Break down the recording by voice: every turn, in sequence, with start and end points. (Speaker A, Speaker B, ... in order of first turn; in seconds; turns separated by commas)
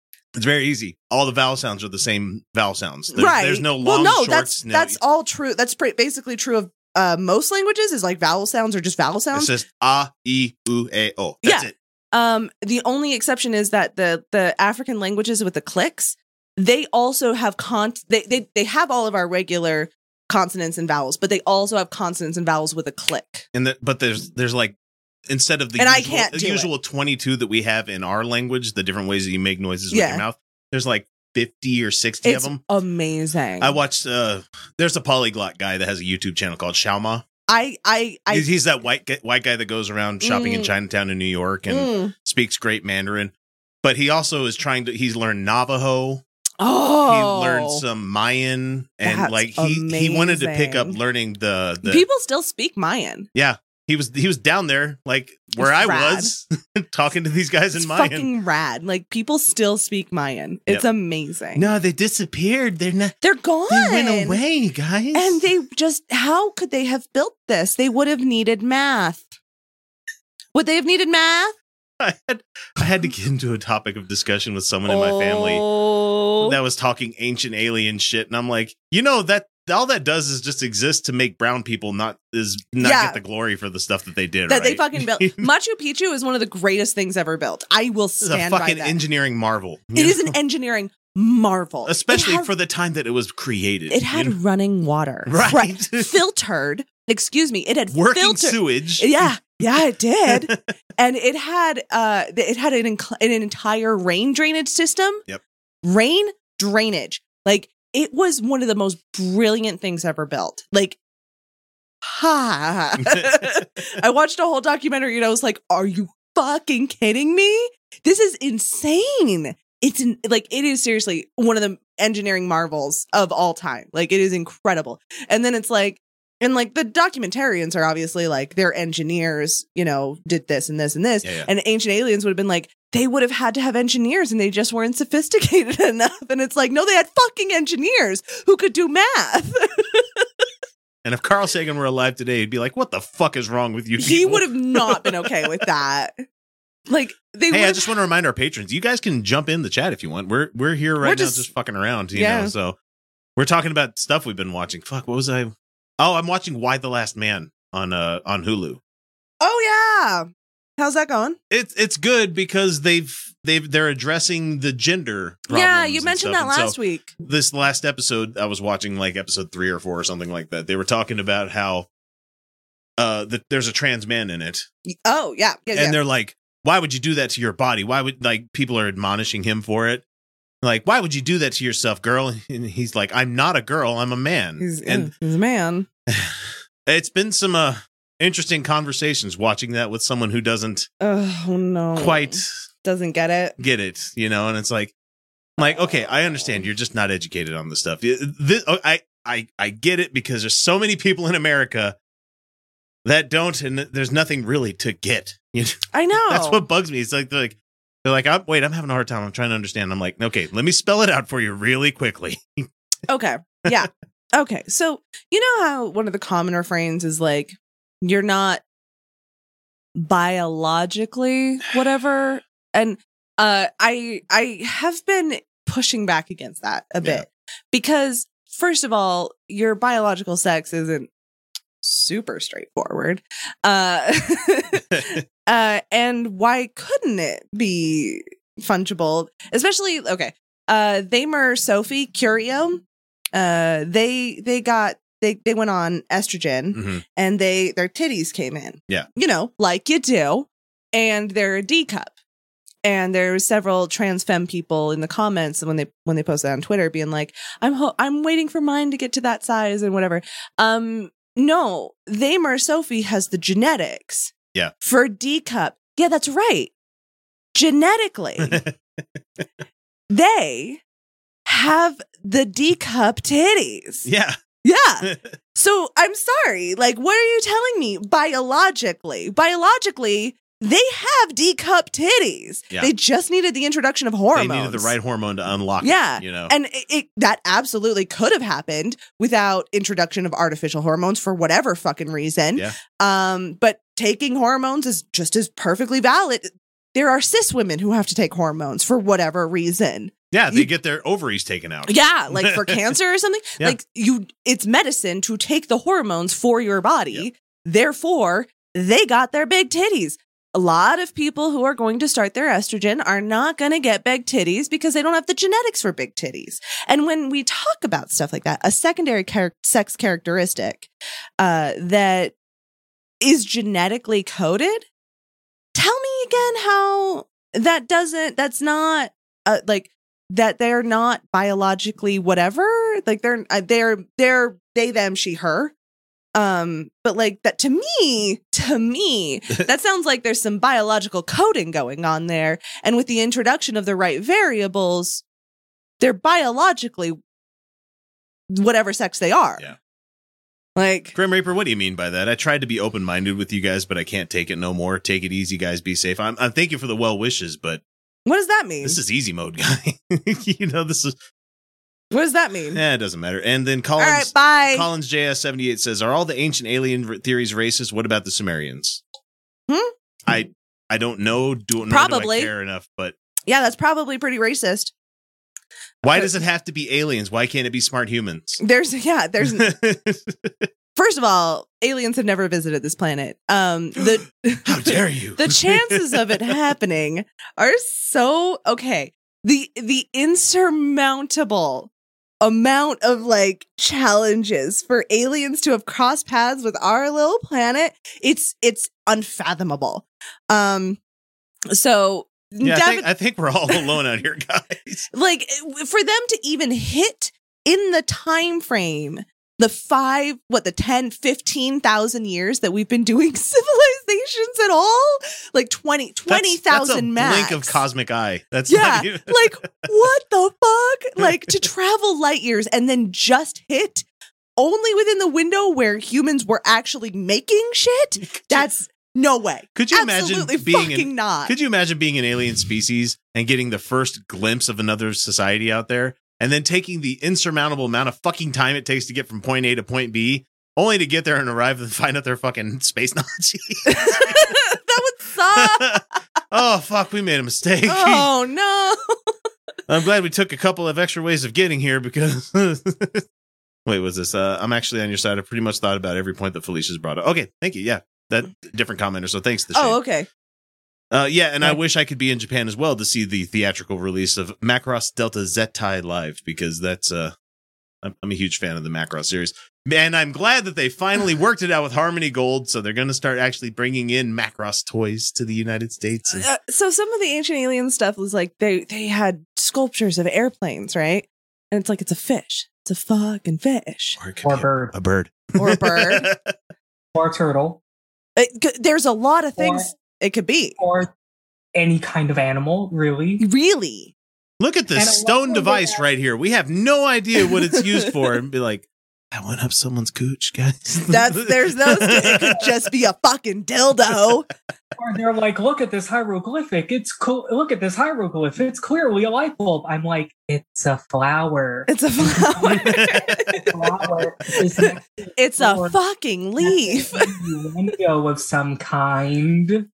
Speaker A: 0.3-5.0, Speaker B: 3.1-9.5, Speaker A: 9.3-11.7, Speaker B: 11.4-23.4, Speaker A: 23.5-24.7, Speaker A: 25.3-32.6, Speaker B: 25.8-26.7, Speaker B: 29.9-30.2, Speaker B: 32.2-33.8, Speaker A: 33.6-37.2, Speaker B: 37.5-38.5, Speaker A: 38.3-43.3, Speaker B: 40.2-40.7, Speaker B: 41.7-42.1, Speaker A: 43.8-46.2, Speaker B: 46.6-47.8, Speaker A: 47.0-52.0, Speaker B: 49.0-51.0, Speaker B: 51.8-53.3, Speaker A: 53.3-58.3, Speaker B: 55.6-56.3, Speaker B: 57.7-61.7, Speaker A: 61.5-63.1, Speaker B: 63.2-64.4, Speaker A: 63.7-65.4, Speaker B: 65.1-69.3, Speaker B: 70.5-71.5, Speaker A: 72.0-75.6, Speaker B: 74.9-76.5, Speaker A: 76.4-85.5, Speaker B: 82.8-83.2, Speaker B: 84.5-89.0, Speaker A: 88.2-90.3, Speaker B: 89.9-92.5, Speaker A: 91.8-94.3, Speaker B: 93.9-105.2, Speaker A: 95.3-96.1, Speaker A: 97.9-99.3, Speaker A: 100.3-100.6, Speaker B: 105.8-111.0, Speaker B: 112.0-140.2, Speaker A: 113.0-113.4, Speaker A: 131.2-131.5, Speaker A: 141.0-145.3, Speaker B: 144.0-146.2, Speaker B: 146.9-147.9, Speaker A: 147.5-152.8, Speaker B: 151.0-151.5, Speaker B: 152.1-152.5, Speaker A: 153.3-158.8, Speaker B: 159.4-160.3, Speaker B: 160.8-161.4, Speaker A: 161.5-171.9, Speaker B: 165.5-167.1, Speaker A: 173.0-174.7, Speaker B: 174.9-176.0, Speaker A: 175.7-180.0, Speaker A: 180.6-185.1, Speaker B: 184.6-185.8, Speaker A: 186.1-190.9, Speaker B: 191.0-193.6, Speaker A: 191.9-192.6, Speaker A: 193.6-194.9, Speaker A: 195.6-201.9, Speaker A: 203.0-212.7, Speaker B: 205.9-206.6, Speaker B: 213.1-218.6, Speaker B: 219.9-231.1, Speaker B: 231.8-242.8, Speaker B: 243.3-252.1, Speaker A: 246.7-247.0, Speaker B: 252.8-266.7, Speaker B: 267.5-268.6, Speaker A: 268.4-268.7, Speaker B: 270.1-270.8, Speaker B: 271.4-274.1, Speaker A: 274.0-274.4, Speaker B: 274.6-284.9, Speaker A: 275.0-275.3, Speaker A: 284.3-286.5, Speaker B: 285.8-300.7, Speaker A: 300.3-302.8, Speaker B: 301.9-320.9, Speaker B: 321.4-322.3, Speaker B: 323.2-324.9, Speaker B: 325.7-335.7, Speaker B: 336.3-345.2, Speaker B: 346.0-347.2, Speaker B: 348.5-349.6, Speaker B: 350.8-351.1, Speaker A: 351.1-357.8, Speaker B: 358.2-359.0, Speaker A: 358.8-361.2, Speaker B: 362.1-362.8, Speaker A: 362.7-369.0, Speaker B: 364.0-364.9, Speaker A: 370.2-373.1, Speaker B: 371.9-372.5, Speaker B: 373.5-374.9, Speaker A: 376.0-378.6, Speaker B: 378.6-379.7, Speaker A: 379.4-380.7, Speaker B: 380.9-401.0, Speaker A: 384.6-386.5, Speaker B: 401.7-403.1, Speaker A: 402.6-405.1, Speaker B: 405.1-417.8, Speaker A: 416.3-419.6, Speaker B: 418.7-424.1, Speaker B: 424.6-431.5, Speaker A: 428.2-428.7, Speaker A: 429.7-444.5, Speaker B: 443.9-446.0, Speaker A: 445.5-448.3, Speaker B: 447.8-449.1, Speaker A: 449.9-453.2, Speaker A: 453.9-460.0, Speaker B: 459.7-460.3, Speaker A: 461.1-467.3, Speaker A: 468.0-476.4, Speaker B: 476.3-484.2, Speaker A: 484.2-486.5, Speaker C: 484.4-484.9, Speaker B: 485.6-486.3, Speaker C: 487.1-487.8, Speaker B: 488.4-490.8, Speaker C: 489.6-489.9, Speaker C: 490.8-491.1, Speaker C: 491.7-493.4, Speaker B: 493.4-494.1, Speaker A: 494.6-502.7, Speaker C: 494.9-496.1, Speaker B: 501.1-504.5, Speaker C: 505.0-516.0, Speaker B: 511.9-513.8, Speaker A: 512.8-513.3, Speaker B: 514.5-517.4, Speaker C: 516.6-519.9